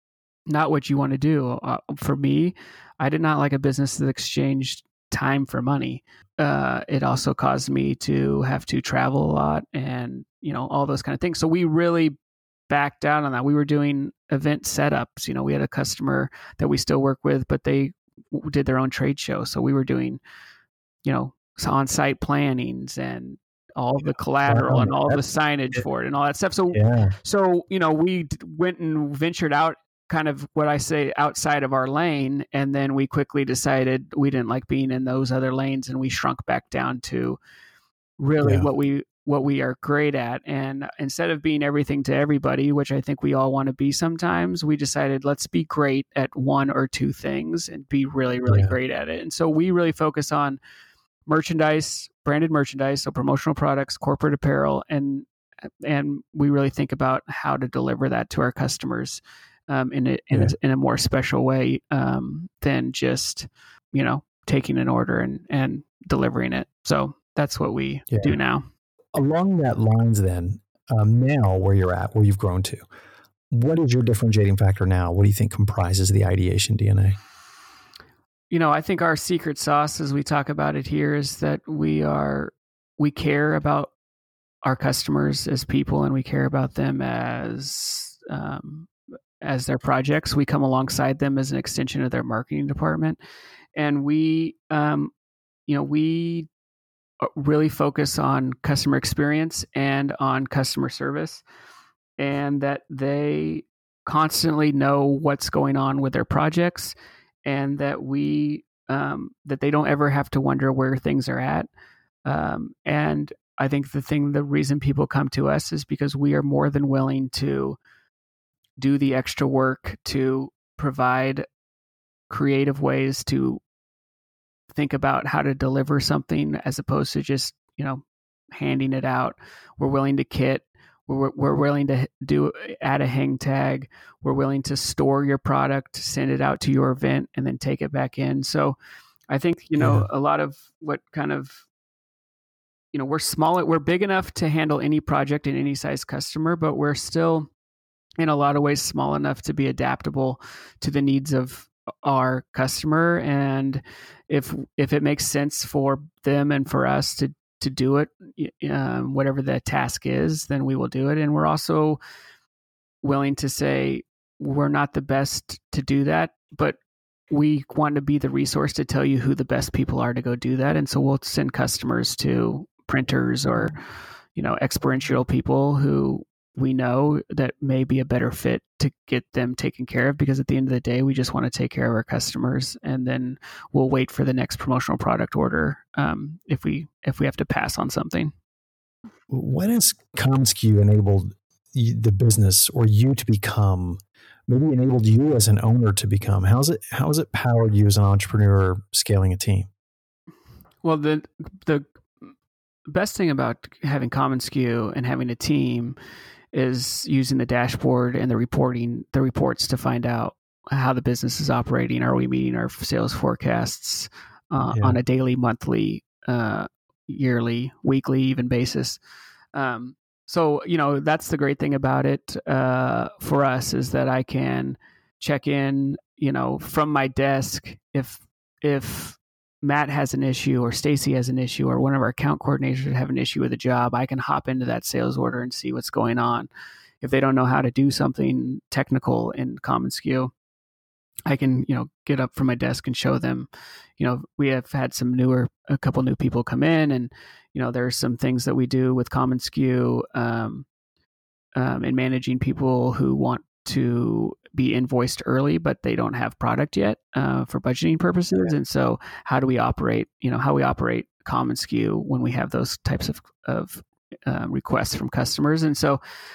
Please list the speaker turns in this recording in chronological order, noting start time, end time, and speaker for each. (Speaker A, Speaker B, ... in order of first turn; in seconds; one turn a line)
Speaker A: 0.5-12.2
Speaker A: 12.7-20.2
Speaker A: 21.0-37.4
Speaker B: 24.5-25.2
Speaker B: 26.7-27.1
Speaker A: 38.2-50.6
Speaker B: 38.4-38.7
Speaker B: 48.5-48.7
Speaker A: 51.3-55.3
Speaker A: 55.8-68.6
Speaker B: 68.1-68.3
Speaker B: 69.1-72.8
Speaker B: 73.5-77.2
Speaker A: 78.5-83.9
Speaker A: 84.6-88.9
Speaker A: 89.4-93.2
Speaker A: 93.8-95.1
Speaker A: 95.7-96.5
Speaker A: 97.2-101.4
Speaker A: 102.2-111.7
Speaker A: 112.2-117.8
Speaker A: 118.8-121.4
Speaker A: 122.3-123.6
Speaker A: 124.7-138.8
Speaker A: 139.3-141.7
Speaker B: 139.8-140.0
Speaker A: 142.9-147.5
Speaker A: 148.2-162.0
Speaker A: 163.0-166.8
Speaker A: 167.3-173.8
Speaker A: 174.3-188.3
Speaker B: 189.3-199.7
Speaker A: 200.8-202.3
Speaker A: 202.9-205.9
Speaker A: 206.5-219.0
Speaker B: 214.7-215.0
Speaker A: 219.5-236.5
Speaker A: 237.0-240.3
Speaker A: 241.3-250.7
Speaker A: 251.6-266.0